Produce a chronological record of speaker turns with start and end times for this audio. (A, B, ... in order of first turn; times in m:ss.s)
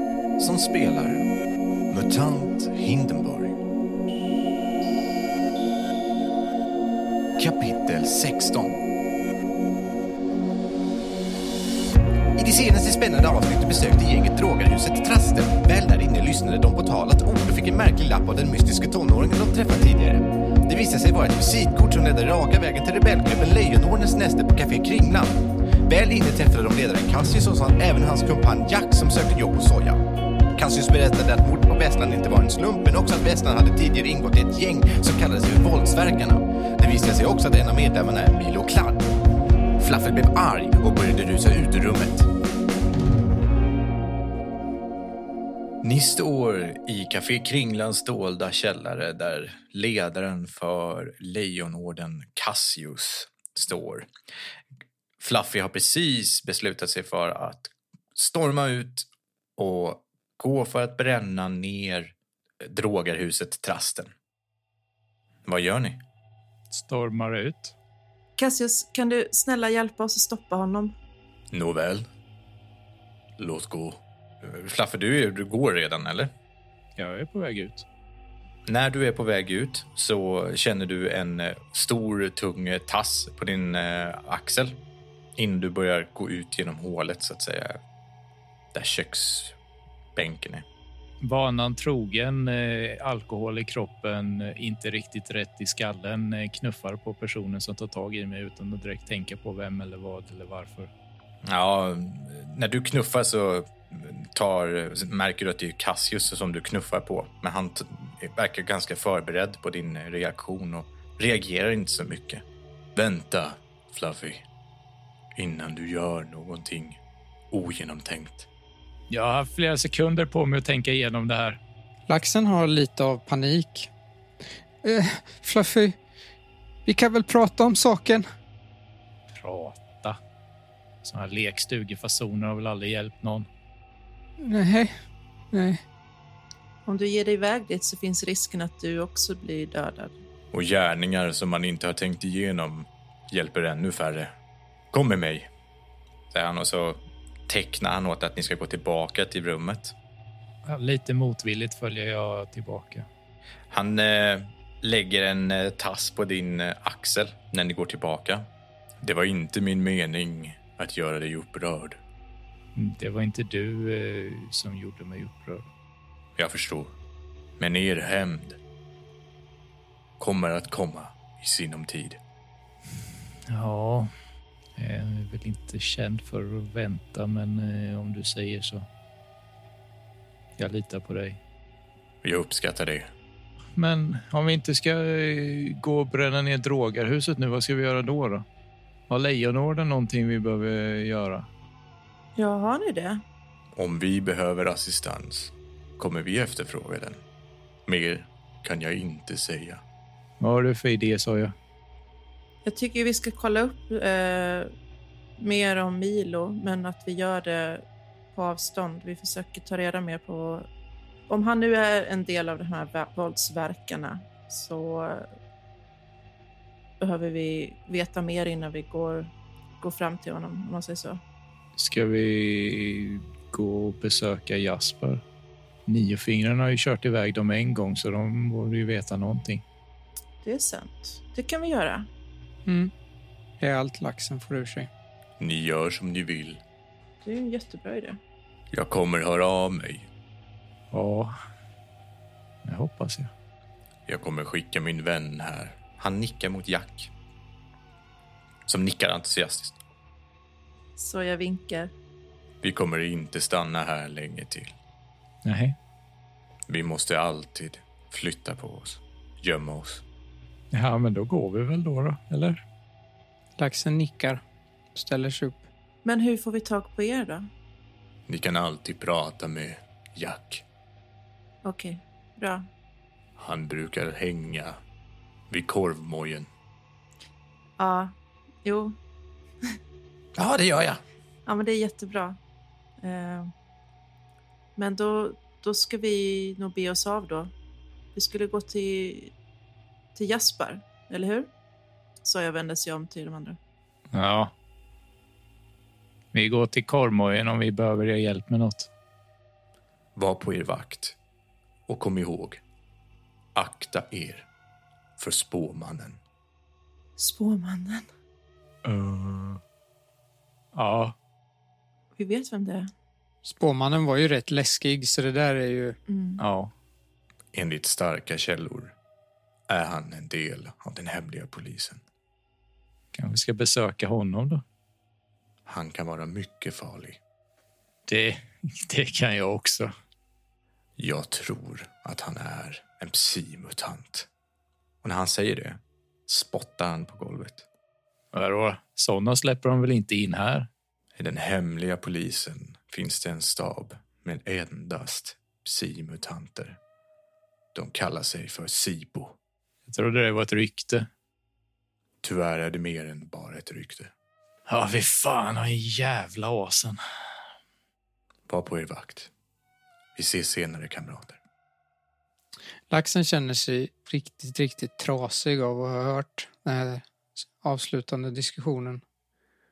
0:00.4-0:01.3 A
0:01.9-0:03.6 A
0:07.4-0:08.8 A
0:12.4-0:30.0 A
0:30.5-0:39.1 A
0:39.8-0:42.3 A
0:45.8-0:54.1 A
0:55.2-1:04.1 A
1:05.4-1:06.0 A
1:06.7-1:07.7 B
1:08.4-1:10.9 C
1:11.5-1:12.1 A
1:13.4-1:16.3 A
1:17.0-1:17.8 B
1:18.7-1:24.8 A
1:25.4-1:27.8 A
1:28.7-1:29.6 A
1:30.2-1:30.6 A
1:31.2-1:40.9 B
1:41.4-1:52.4 A
1:53.0-1:54.4 A
1:55.3-1:57.0 A
1:57.5-1:58.5 A
1:59.1-2:01.6 B
2:02.1-2:03.9 D
2:04.8-2:06.0 D
2:06.8-2:08.2 D
2:09.3-2:10.2 B
2:11.0-2:13.5 B
2:14.4-2:14.9 D
2:15.5-2:15.8 D
2:16.8-2:20.1 C
2:20.5-2:24.3 A
2:24.9-2:25.5 A
2:26.3-2:29.9 A
2:30.6-2:33.1 B
2:33.7-2:38.5 A
2:39.0-2:42.0 A
2:42.8-2:45.6 B
2:46.4-2:46.9 A
2:47.6-2:48.6 A
2:50.2-2:52.2 A
2:53.5-2:54.1 B
2:54.8-2:58.8 B
3:00.6-3:01.4 B
3:02.2-3:03.1 A
3:03.8-3:08.4 B
3:09.1-3:11.5 B
3:12.4-3:13.2 C
3:13.8-3:17.2 A
3:17.9-3:19.8 A
3:20.4-3:21.5 B
3:22.6-3:24.7 C
3:25.4-3:27.8 C
3:28.3-3:30.7 C
3:31.3-3:35.2 C
3:37.0-3:41.2 C
3:41.8-3:45.2 B
3:45.9-3:49.6 B
3:50.4-3:52.1 C
3:52.7-3:52.9 D
3:53.6-3:54.9 D
3:55.4-3:56.6 A
3:57.2-3:58.2 C
3:58.7-4:00.1 A
4:00.9-4:01.3 B
4:02.6-4:03.3 B
4:04.1-4:07.1 A
4:08.7-4:09.8 A
4:11.0-4:11.9 C
4:12.6-4:14.7 A
4:15.4-4:15.8 B
4:16.7-4:20.0 A
4:20.7-4:22.6 B
4:23.6-4:24.4 D
4:24.9-4:25.6 D
4:26.0-4:27.5 C
4:28.3-4:30.6 A
4:31.6-4:32.7 C
4:33.4-4:34.8 A
4:35.5-4:36.5 A
4:37.8-4:38.1 C
4:38.6-4:39.0 C
4:40.4-4:41.0 A
4:41.4-4:42.4 C
4:43.0-4:43.5 C
4:44.8-4:47.5 C
4:48.1-4:49.3 C
4:50.2-4:51.5 C
4:52.2-4:53.6 C
4:54.1-4:54.5 B
4:56.3-4:58.9 B
5:00.2-5:01.2 A
5:01.9-5:02.6 A
5:03.5-5:04.4 A
5:05.2-5:06.2 A
5:07.2-5:08.0 C
5:08.8-5:09.6 B
5:10.7-5:11.1 B
5:12.2-5:12.9 C
5:13.4-5:16.0 D
5:16.1-5:16.4 C
5:16.4-5:16.7 B
5:17.5-5:18.9 A
5:19.7-5:22.0 A
5:23.1-5:24.6 B
5:25.6-5:27.2 A
5:28.1-5:29.9 B
5:31.0-5:34.3 A
5:35.0-5:37.6 A
5:38.3-5:40.7 B
5:41.2-5:46.8 A
5:47.7-5:49.3 A
5:49.9-5:51.1 B
5:52.2-5:54.1 A
5:54.7-5:57.0 B
5:58.5-5:59.3 A
6:00.2-6:01.4 A
6:02.9-6:07.0 D
6:07.6-6:09.0 D